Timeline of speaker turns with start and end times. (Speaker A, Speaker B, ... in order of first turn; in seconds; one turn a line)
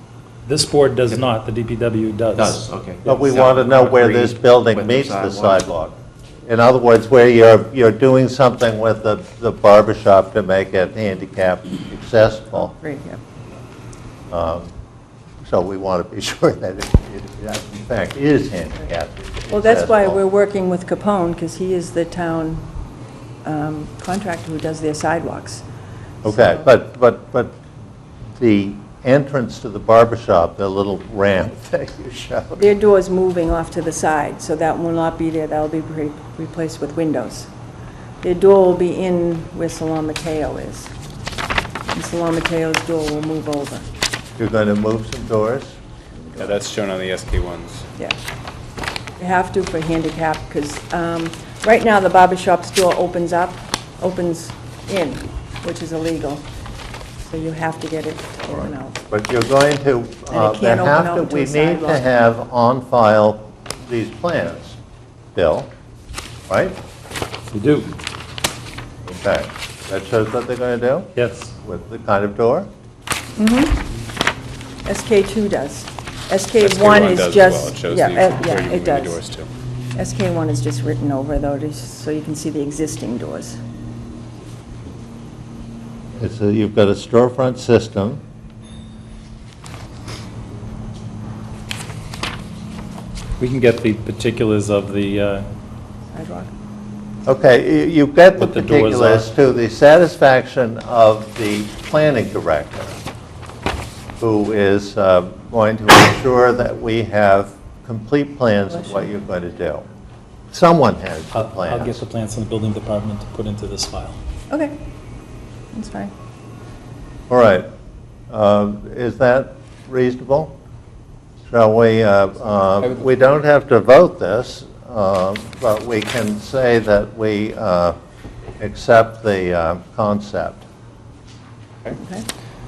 Speaker A: 0.5-2.6
Speaker B: 2.3-5.7
Speaker C: 3.1-12.7
Speaker D: 12.6-13.2
Speaker C: 14.3-14.7
Speaker C: 15.4-20.2
Speaker D: 19.5-22.7
Speaker D: 23.4-25.6
Speaker D: 26.2-26.6
Speaker C: 26.2-27.6
Speaker C: 28.4-32.7
Speaker D: 32.6-37.5
Speaker D: 38.2-40.9
Speaker D: 41.9-43.9
Speaker C: 44.4-45.8
Speaker E: 46.4-47.9
Speaker D: 49.2-56.5
Speaker D: 57.2-59.0
Speaker C: 58.5-64.8
Speaker D: 60.3-62.0
Speaker C: 65.3-65.7
Speaker C: 66.5-66.8
Speaker A: 67.5-67.9
Speaker C: 69.1-72.7
Speaker A: 71.2-71.5
Speaker D: 73.4-73.9
Speaker D: 74.8-79.2
Speaker E: 76.6-79.5
Speaker D: 79.9-83.6
Speaker C: 86.2-88.2
Speaker A: 93.4-95.5
Speaker D: 96.1-96.5
Speaker C: 97.3-103.0
Speaker A: 98.4-99.3
Speaker C: 104.2-109.8
Speaker C: 110.5-112.0
Speaker A: 111.3-114.2
Speaker D: 114.5-114.8
Speaker D: 115.7-116.1
Speaker C: 117.3-117.7
Speaker C: 118.3-120.6
Speaker C: 121.5-128.0
Speaker E: 122.8-123.1
Speaker C: 128.6-130.6
Speaker D: 132.0-132.3